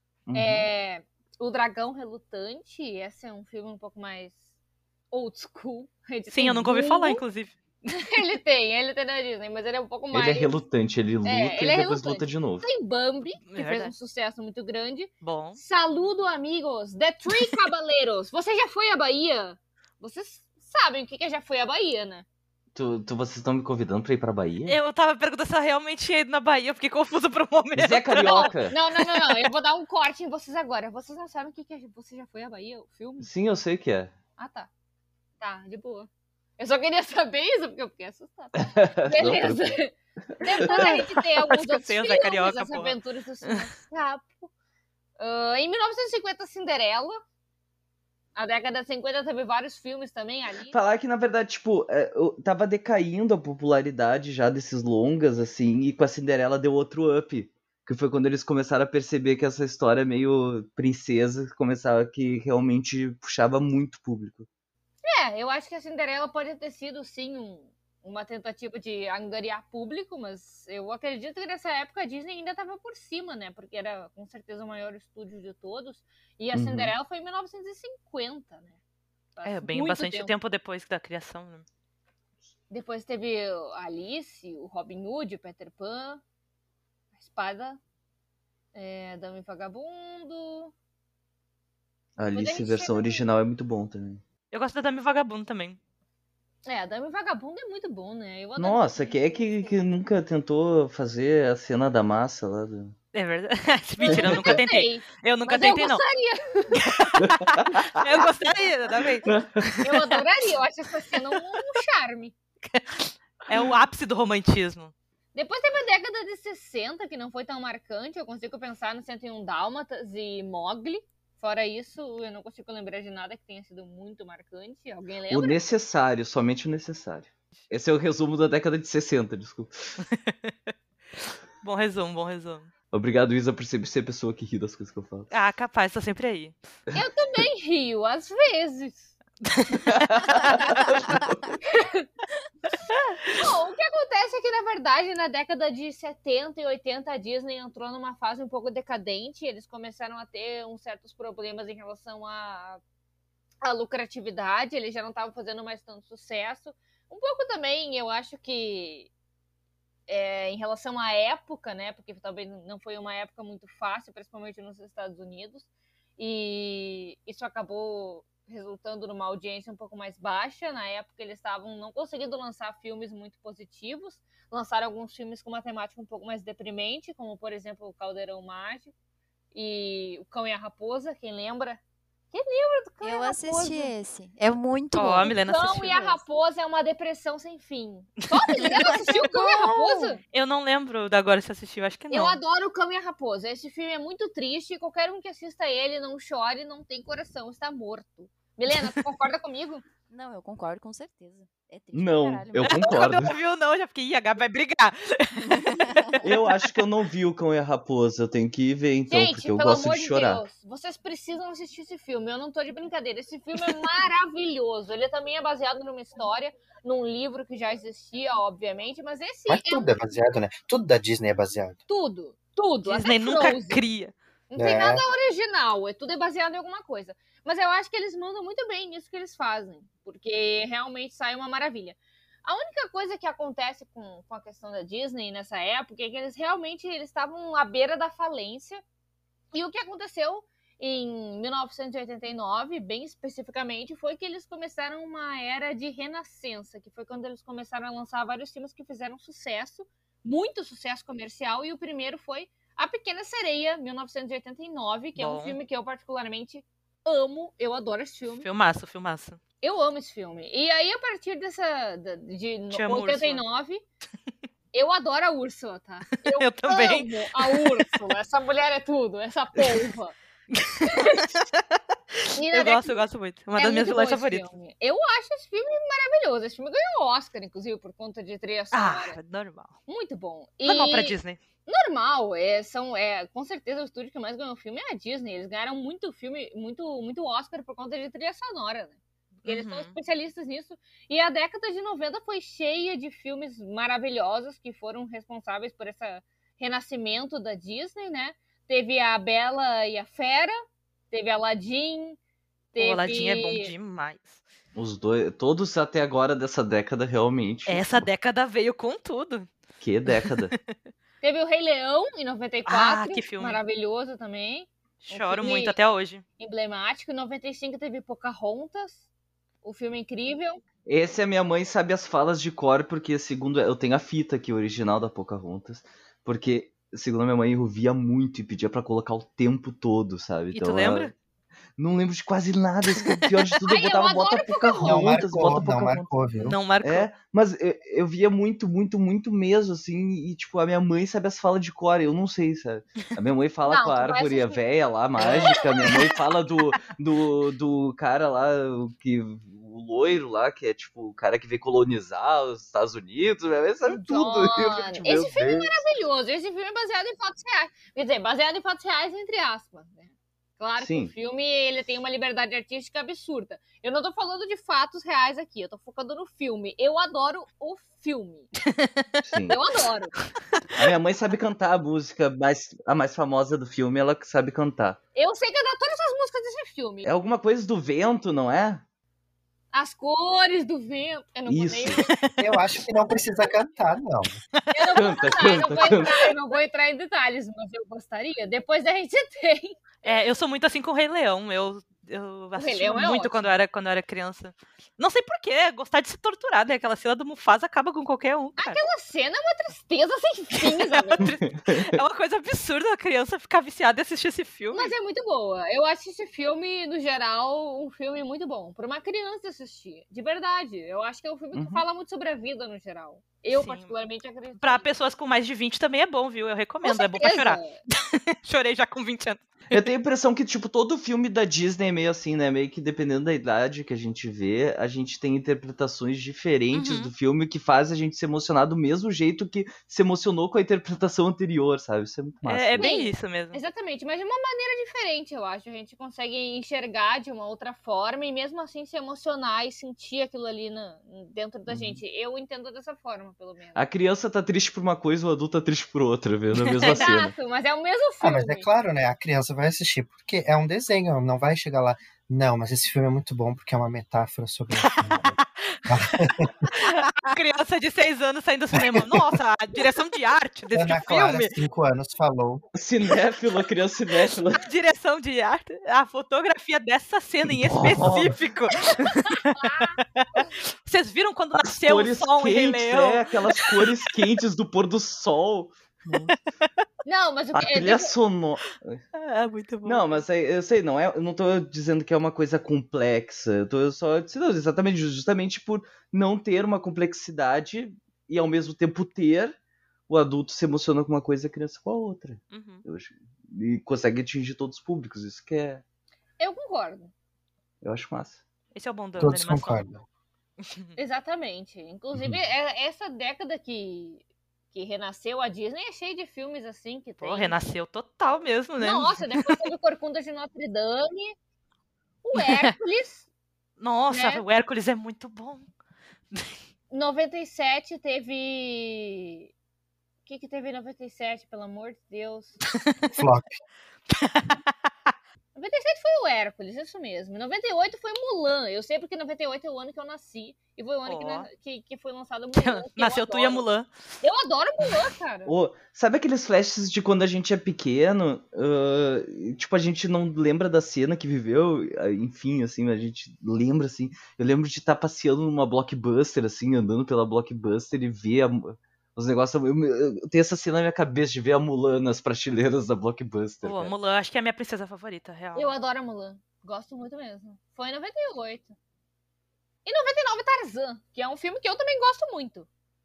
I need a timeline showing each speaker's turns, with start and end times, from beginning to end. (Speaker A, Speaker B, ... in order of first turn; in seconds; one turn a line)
Speaker A: 0.3-0.7
Speaker B: 0.3-4.4
Speaker B: 5.1-7.2
Speaker C: 6.3-7.5
Speaker B: 7.8-10.6
Speaker A: 10.1-12.7
Speaker B: 11.2-22.2
Speaker C: 13.4-13.9
Speaker C: 15.2-15.6
Speaker A: 22.7-24.8
Speaker C: 24.7-29.5
Speaker A: 27.7-28.8
Speaker B: 28.1-33.3
Speaker A: 33.2-34.1
Speaker B: 34.4-34.7
Speaker B: 35.4-44.5
Speaker A: 38.5-39.8
Speaker A: 40.3-40.9
Speaker C: 40.6-43.6
Speaker B: 45.2-47.2
Speaker B: 48.3-50.8
Speaker A: 50.7-64.5
Speaker B: 65.0-78.8
Speaker A: 76.5-76.9
Speaker B: 79.3-80.3
Speaker C: 79.4-81.6
Speaker B: 82.7-86.2
Speaker B: 87.2-87.8
Speaker B: 88.7-90.7
Speaker A: 92.2-94.2
Speaker B: 92.3-93.2
Speaker C: 94.5-95.8
Speaker B: 96.7-99.9
Speaker A: 98.6-102.9
Speaker C: 103.1-106.0
Speaker B: 104.0-106.8
Speaker A: 104.1-104.6
Speaker C: 106.7-110.2
Speaker A: 107.2-108.0
Speaker A: 109.2-109.8
Speaker B: 109.8-112.3
Speaker C: 111.2-111.4
Speaker C: 112.6-114.9
Speaker B: 115.3-125.6
Speaker A: 125.3-130.0
Speaker C: 130.0-130.5
Speaker C: 131.6-132.7
Speaker A: 132.9-135.3
Speaker C: 135.3-136.5
Speaker B: 136.9-139.1
Speaker C: 139.4-140.4
Speaker A: 139.8-141.6
Speaker B: 141.6-142.1
Speaker C: 142.9-143.4
Speaker B: 143.3-152.8
Speaker B: 153.6-159.1
Speaker B: 160.1-178.9
Speaker B: 179.5-183.9
Speaker D: 183.0-186.2
Speaker C: 184.9-186.0
Speaker B: 185.2-190.2
Speaker C: 188.3-192.4
Speaker D: 188.7-190.1
Speaker B: 192.1-199.8
Speaker D: 200.1-203.1
Speaker A: 201.9-203.3
Speaker C: 202.6-206.2
Speaker D: 205.4-206.3
Speaker A: 206.2-210.4
Speaker B: 209.1-219.9
Speaker E: 219.5-221.8
Speaker B: 221.9-223.8
Speaker C: 222.8-224.1
Speaker B: 224.5-238.8
Speaker E: 224.6-225.0
Speaker B: 239.5-258.5
Speaker C: 255.2-255.6
Speaker C: 258.4-259.4
Speaker B: 259.6-263.8
Speaker C: 262.7-263.4
Speaker B: 264.7-270.1
Speaker C: 266.1-267.9
Speaker C: 269.6-269.9
Speaker C: 270.5-274.4
Speaker B: 270.8-271.3
Speaker B: 272.3-273.0
Speaker B: 273.6-279.2
Speaker C: 278.7-279.8
Speaker B: 279.9-300.5
Speaker C: 280.6-281.4
Speaker C: 289.4-289.9
Speaker B: 301.1-302.2
Speaker B: 302.7-303.7
Speaker C: 302.8-304.4
Speaker A: 304.7-307.8
Speaker C: 307.7-309.5
Speaker A: 309.8-310.5
Speaker C: 310.1-310.8
Speaker B: 311.2-315.7
Speaker C: 312.6-313.6
Speaker C: 315.0-316.2
Speaker B: 316.4-319.0
Speaker B: 319.6-320.6
Speaker A: 320.9-331.1
Speaker C: 330.5-331.1
Speaker A: 331.8-336.1
Speaker C: 332.9-333.3
Speaker B: 333.6-335.3
Speaker E: 334.8-336.6
Speaker C: 336.4-337.1
Speaker A: 336.8-355.8
Speaker B: 343.6-344.6
Speaker B: 345.2-346.0
Speaker C: 345.4-346.0
Speaker B: 353.9-368.5
Speaker A: 360.8-361.1
Speaker A: 369.2-369.6
Speaker B: 369.5-370.1
Speaker A: 370.7-375.0
Speaker B: 375.1-377.1
Speaker A: 377.0-378.8
Speaker B: 379.7-382.2
Speaker A: 381.5-382.1
Speaker E: 382.4-384.4
Speaker C: 384.6-385.6
Speaker B: 384.7-390.1
Speaker A: 384.9-386.2
Speaker C: 390.0-398.8
Speaker B: 392.6-393.4
Speaker B: 398.6-401.3
Speaker C: 400.6-404.9
Speaker A: 401.2-402.0
Speaker B: 404.7-414.9
Speaker A: 411.5-411.8
Speaker C: 413.5-413.9
Speaker C: 414.6-419.9
Speaker B: 416.8-417.8
Speaker A: 419.7-432.9
Speaker C: 426.7-427.1
Speaker C: 432.4-433.6
Speaker B: 432.8-443.8
Speaker A: 441.7-442.0
Speaker A: 443.7-447.3
Speaker C: 446.7-447.1
Speaker B: 446.8-448.7
Speaker E: 448.2-456.7
Speaker C: 454.8-461.5
Speaker E: 458.8-459.2
Speaker E: 460.7-462.6
Speaker A: 462.7-464.6
Speaker C: 464.6-470.3
Speaker A: 467.5-468.3
Speaker B: 469.4-470.0
Speaker C: 470.8-473.2
Speaker A: 471.6-476.3
Speaker B: 477.0-478.1
Speaker A: 477.5-479.0
Speaker C: 479.1-480.2
Speaker A: 479.8-489.6
Speaker A: 490.1-495.8
Speaker C: 492.5-492.8
Speaker B: 496.4-497.1
Speaker A: 497.8-498.4
Speaker C: 498.7-499.8
Speaker E: 499.2-500.0
Speaker C: 500.6-500.9
Speaker B: 501.0-507.6
Speaker C: 507.2-509.6
Speaker B: 508.8-511.3
Speaker B: 512.2-513.2
Speaker C: 512.3-512.7
Speaker C: 513.8-515.7
Speaker B: 514.1-514.4
Speaker B: 516.9-519.5
Speaker B: 520.2-522.6
Speaker C: 522.8-523.1
Speaker E: 523.1-523.5
Speaker C: 524.1-524.7
Speaker B: 525.5-533.7
Speaker C: 531.0-531.5
Speaker C: 532.5-533.9
Speaker B: 534.2-535.5
Speaker A: 535.5-553.9
Speaker C: 553.6-555.7
Speaker B: 555.5-558.8
Speaker B: 559.8-562.7